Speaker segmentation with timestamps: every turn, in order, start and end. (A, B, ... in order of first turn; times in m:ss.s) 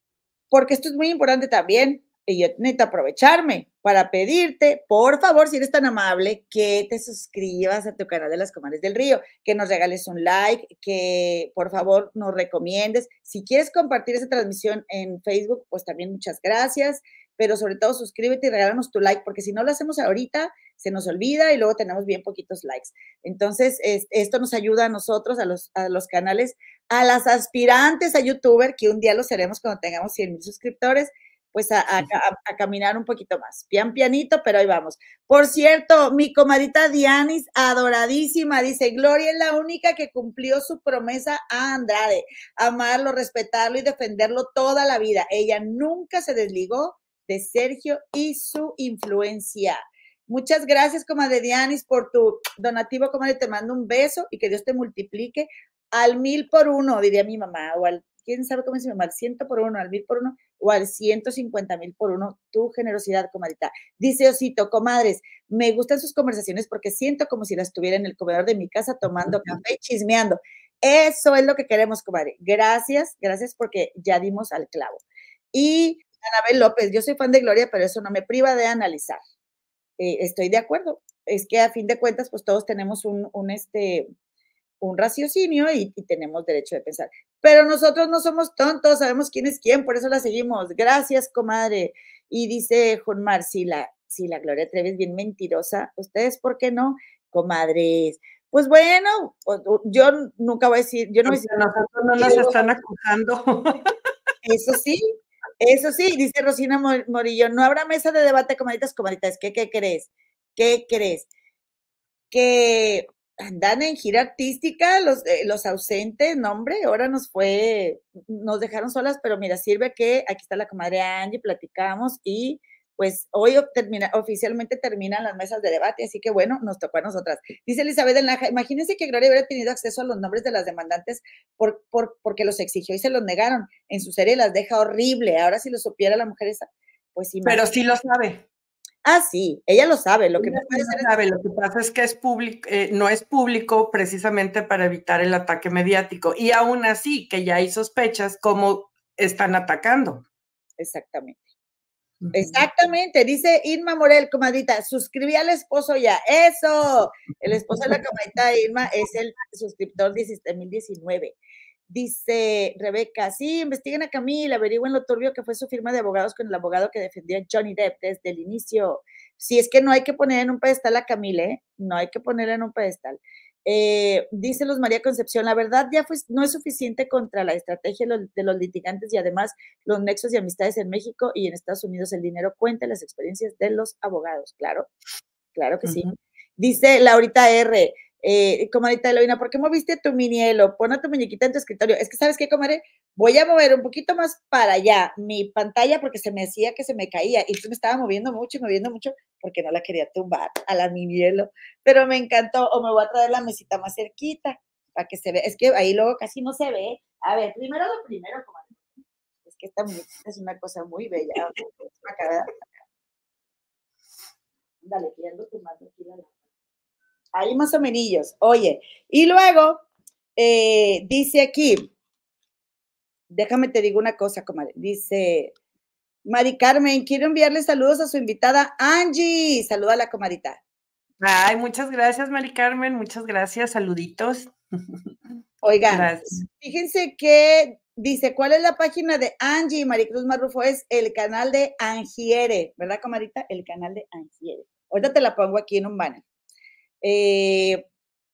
0:00.5-1:19.2 A
1:20.0-1:24.1 A
1:24.8-1:41.6 A
1:41.2-1:43.9 B
1:42.2-1:42.6 A
1:44.4-1:45.0 A
1:45.6-1:51.3 A
1:52.3-2:17.6 A
2:17.4-2:18.4 B
2:19.0-2:21.0 A
2:20.4-2:30.2 B
2:30.8-2:31.4 A
2:32.2-2:32.6 B
2:32.3-2:41.4 A
2:41.9-3:04.9 A
3:05.5-3:06.0 A
3:05.8-3:06.1 B
3:06.6-3:28.8 A
3:29.5-3:32.7 A
3:34.8-3:36.3 A
3:37.3-3:39.8 A
3:40.4-3:41.9 A
3:43.3-3:45.5 A
3:46.2-3:50.6 A
3:51.2-3:55.0 B
3:55.6-4:06.2 A
3:55.9-3:56.4 B
4:07.0-4:07.8 A